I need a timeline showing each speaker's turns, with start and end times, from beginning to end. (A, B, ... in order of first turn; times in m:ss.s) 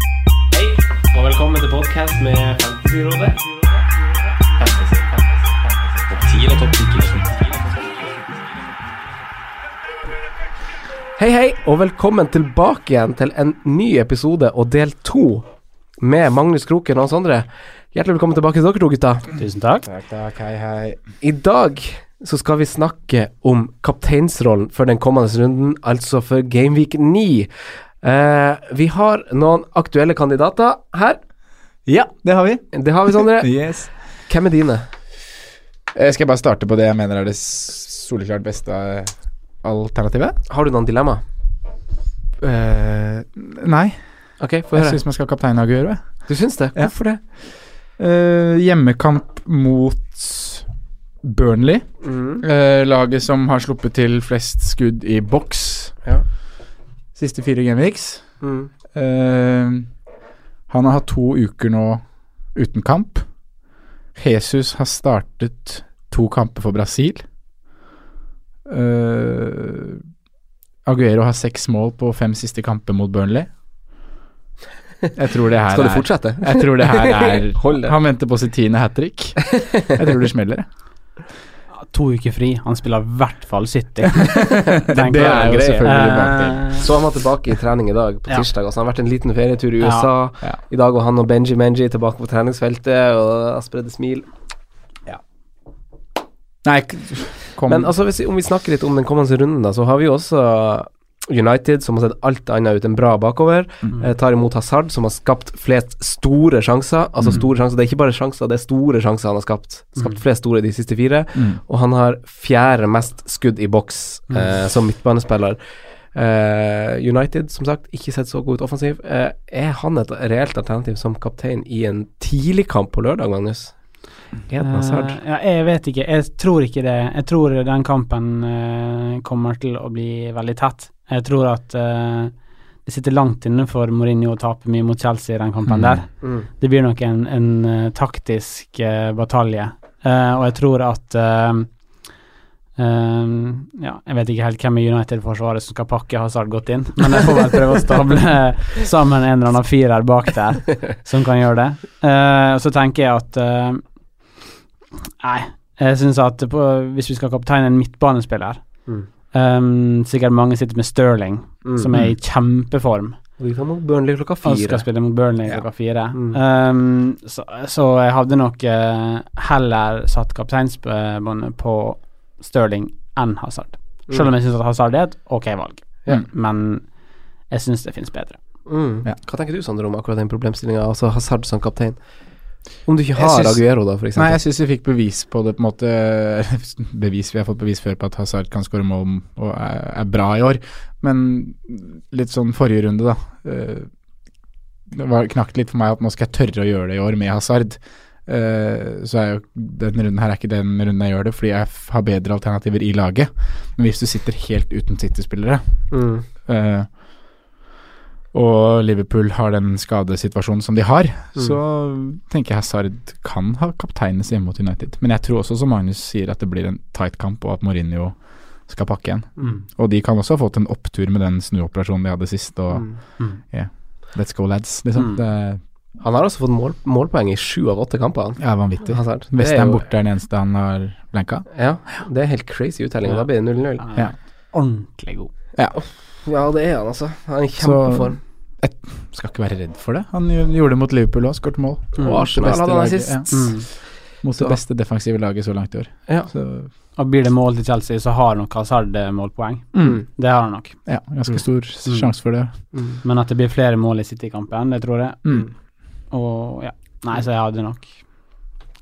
0:00.5-0:03.7 A
0:04.6-0:08.2 A
0:11.2-0:15.5 A
0:16.0-0:19.3 A
0:19.4-0:19.9 B
0:19.8-0:21.0 C
0:21.2-0:27.5 A
0:28.0-0:31.2 A
0:31.9-0:33.9 C
0:32.7-0:33.6 A
0:34.3-0:34.8 A
0:36.0-0:40.4 C
0:40.5-0:41.2 A
0:42.4-0:43.2 A
0:43.3-0:44.0 C
0:44.4-0:45.0 A
0:44.7-0:46.2 C
0:46.3-0:47.2 A
0:48.0-0:50.7 C
0:51.2-0:51.9 C
0:52.0-0:52.4 A
0:52.4-0:56.0 C
0:57.2-0:58.3 C
0:58.4-0:58.7 A
0:58.9-0:59.9 C
1:00.7-1:02.0 C
1:02.6-1:03.3 C
1:04.2-1:07.2 C
1:08.7-1:10.0 C
1:10.8-1:13.5 C
1:15.2-1:20.7 C
1:15.7-1:18.0 A
1:21.8-1:26.9 B
1:24.4-1:26.8 C
1:24.4-1:26.1 A
1:26.7-1:34.3 A
1:29.8-1:30.1 B
1:36.6-1:37.9 C
1:37.7-1:55.6 A
1:56.2-2:03.8 A
2:04.5-2:05.2 A
2:04.6-2:12.3 B
2:12.8-2:21.7 B
2:15.7-2:16.0 C
2:16.2-2:16.5 A
2:22.8-2:33.8 B
2:35.2-2:38.6 B
2:39.3-2:43.2 B
2:41.6-2:41.9 A
2:43.4-2:44.8 A
2:44.4-2:56.9 B
2:46.2-2:46.4 A
2:57.5-2:58.4 B
2:58.7-3:02.0 A
3:02.9-3:04.4 A
3:03.2-3:13.9 C
3:14.9-3:25.9 C
3:25.9-3:26.3 A
3:26.4-3:27.0 C
3:28.3-3:45.6 C
3:39.4-3:39.7 A
3:42.7-3:43.0 A
3:46.0-3:49.9 A
3:48.4-3:51.5 C
3:51.5-3:53.9 A
3:53.1-3:55.3 B
3:55.7-3:58.2 A
3:57.6-4:03.7 C
4:02.0-4:03.4 A
4:03.3-4:03.7 B
4:04.2-4:06.7 C
4:06.1-4:06.3 A
4:07.0-4:10.8 B
4:09.7-4:10.0 C
4:10.8-4:12.5 C
4:11.9-4:12.1 B
4:12.7-4:13.0 A
4:13.0-4:15.2 B
4:16.1-4:18.0 B